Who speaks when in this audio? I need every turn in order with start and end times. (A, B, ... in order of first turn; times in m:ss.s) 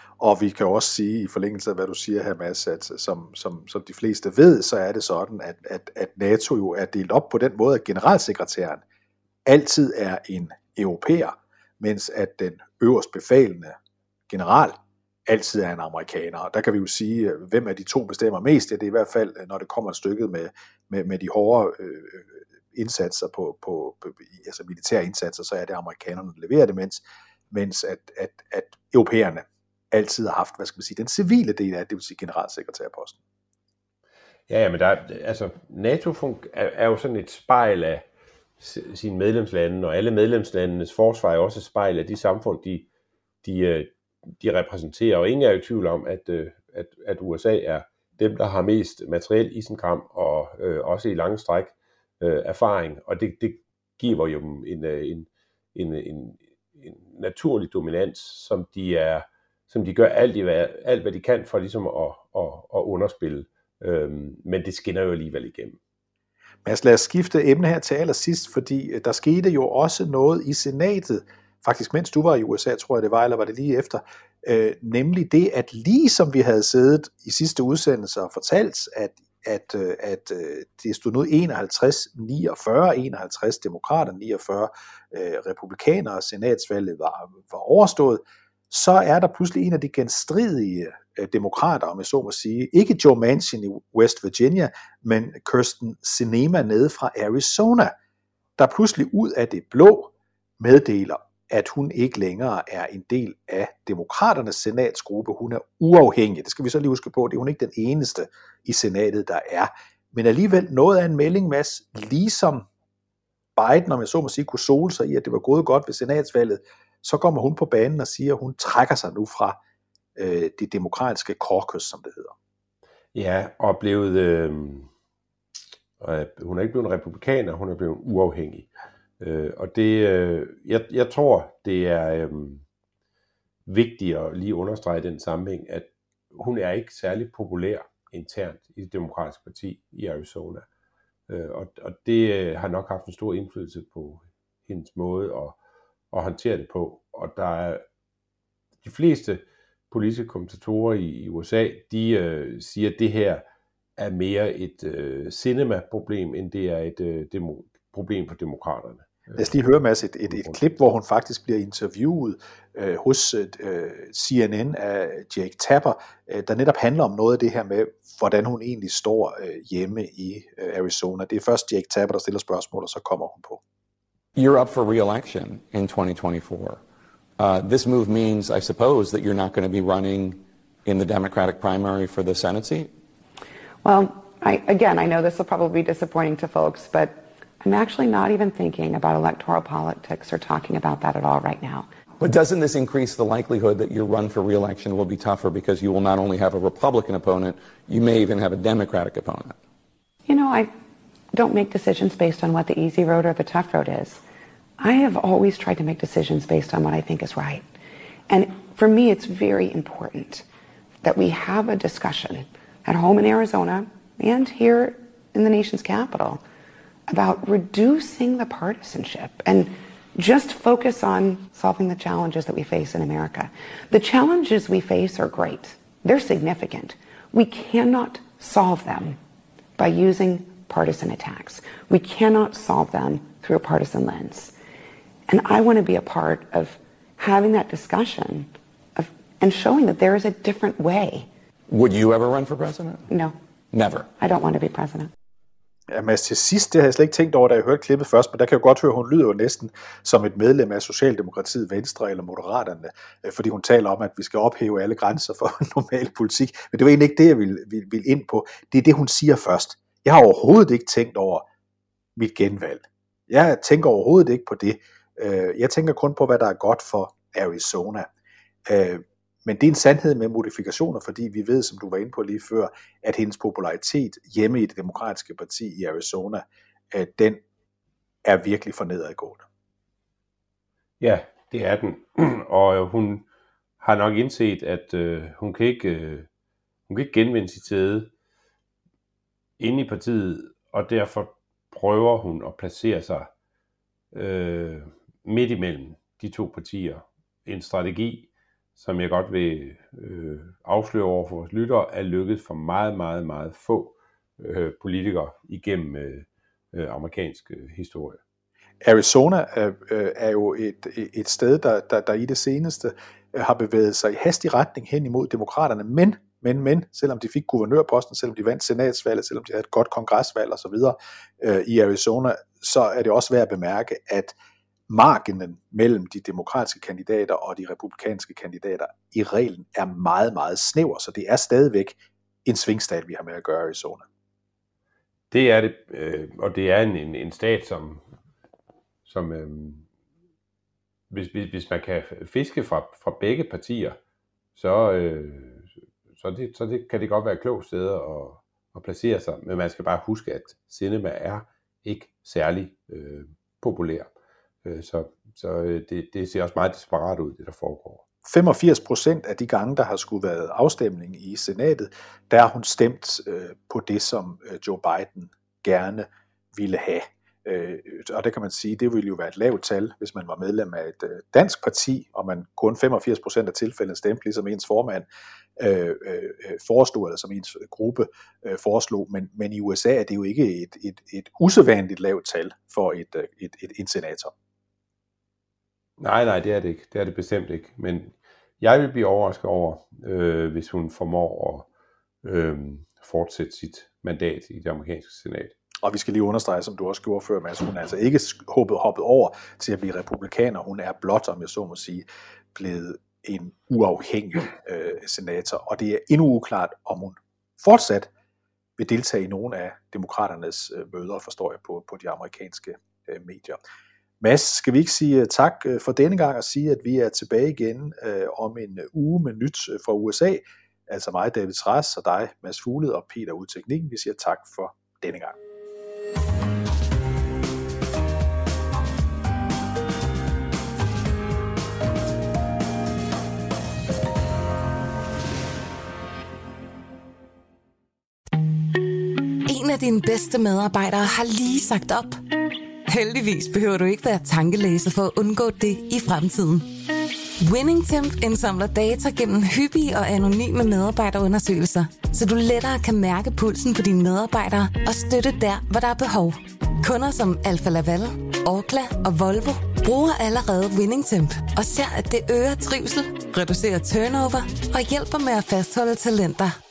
0:00.2-0:08.8 A
0:09.4-0:13.7 A
0:14.3-0:33.2 A
0:34.5-0:38.0 B
0:38.6-0:42.9 B
0:43.4-1:05.8 B
1:06.6-1:37.9 A
1:38.6-1:52.7 A
1:53.6-1:59.6 A
2:00.2-2:02.3 A
2:03.1-2:04.9 B
2:06.0-2:08.7 B
2:09.2-2:12.6 B
2:13.7-2:20.6 B
2:21.3-2:25.6 B
2:26.1-2:27.8 B
2:28.8-2:33.4 B
2:34.0-2:39.4 B
2:39.4-2:53.6 A
2:54.3-2:56.8 C
2:57.4-3:02.9 C
3:03.8-3:11.9 D
3:12.2-3:19.6 C
3:20.3-3:20.7 D
3:21.3-3:24.2 D
3:24.8-3:27.6 D
3:28.3-3:30.4 D
3:31.0-3:36.4 D
3:37.1-3:49.2 D
3:49.8-3:54.5 D
3:55.3-4:01.3 D
4:01.7-4:03.0 C
4:03.1-4:03.3 D
4:03.7-4:04.1 C
4:04.2-4:05.1 D
4:05.9-4:21.5 A
4:22.2-4:28.1 A
4:28.7-4:37.4 A
4:38.2-4:39.4 A
4:41.0-4:43.2 B
4:43.8-4:46.3 B
4:46.9-4:48.1 B
4:49.6-4:53.3 B
4:54.1-5:08.2 B
5:08.8-5:24.3 A
5:24.9-5:34.1 A
5:35.3-5:38.0 B
5:39.0-5:39.8 B
5:41.1-5:44.0 B
5:44.6-5:54.1 B
5:54.6-5:58.0 B
5:58.2-6:15.0 A
6:15.6-6:24.3 A
6:26.0-6:31.7 B
6:32.2-6:35.5 B
6:35.8-6:48.1 A
6:48.8-6:53.6 A
6:54.2-7:05.4 A
7:19.5-7:22.2 E
7:22.9-7:26.7 E
7:27.4-7:46.5 E